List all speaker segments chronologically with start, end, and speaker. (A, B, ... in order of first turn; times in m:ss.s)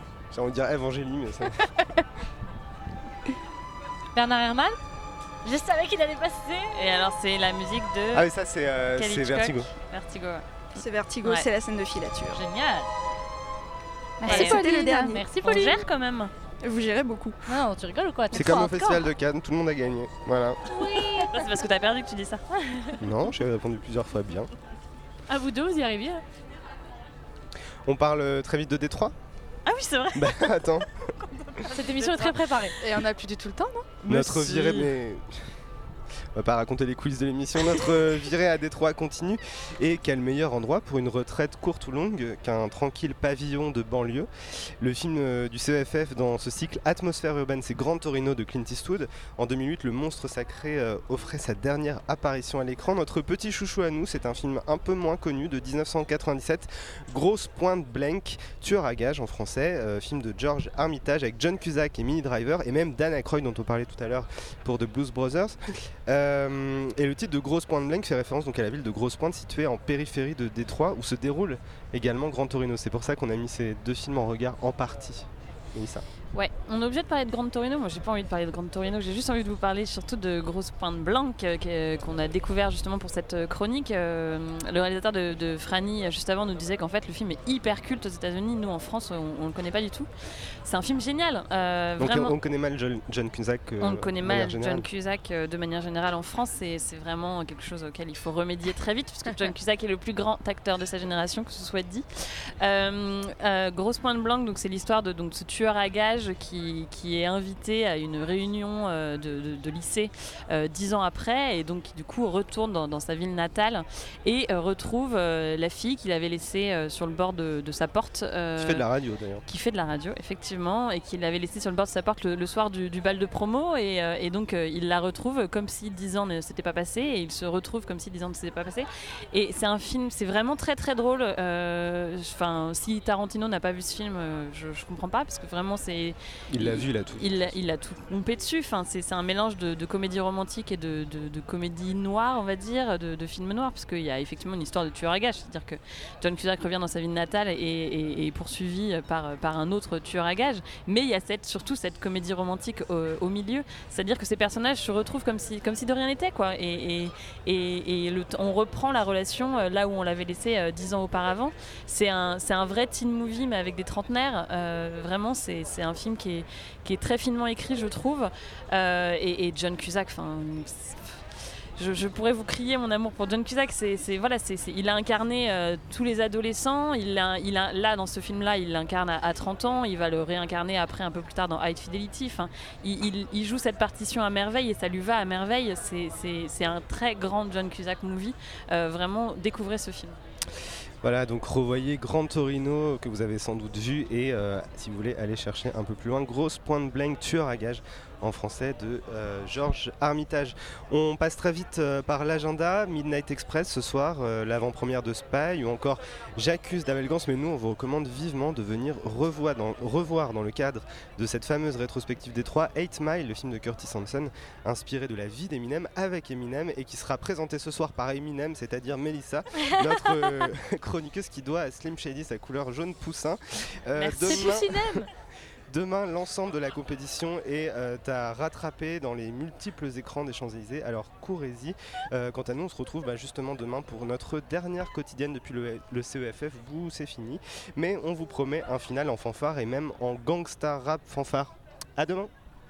0:00.3-0:01.6 A
0:04.2-0:04.8 B
0:05.4-0:06.7 B
0:06.7-0:08.3 C
0:08.1-0:09.7 A
0:09.0-0:10.7 C
0:10.8-0:12.4 D
0:12.3-0:12.9 B
0:14.2-0:14.6 E
0:14.3-0:14.6 C
0:14.3-0:15.8 B
0:14.3-0:15.2 D
0:15.4-0:16.3 C
0:16.6-0:17.4 D
0:17.5-0:19.0 B
0:18.3-0:20.6 A
0:20.7-0:21.3 B
0:21.3-0:22.4 C
0:23.0-0:24.5 A
0:25.3-0:26.2 B
0:27.9-0:29.2 A
0:29.7-0:30.6 C
0:30.2-0:30.9 A
0:31.5-0:32.4 C
0:31.7-0:32.8 B
0:32.8-0:34.7 E
0:34.0-0:35.3 A
0:36.4-1:16.0 A
1:16.3-1:30.1 C
1:30.6-1:32.4 C
1:32.0-1:34.9 A
1:33.8-1:58.9 C
1:58.6-1:59.4 A
1:59.5-3:10.2 C
2:16.5-2:17.5 A
3:11.0-3:45.0 A
3:44.0-3:44.6 C
3:44.2-3:45.1 B
3:45.7-4:02.3 A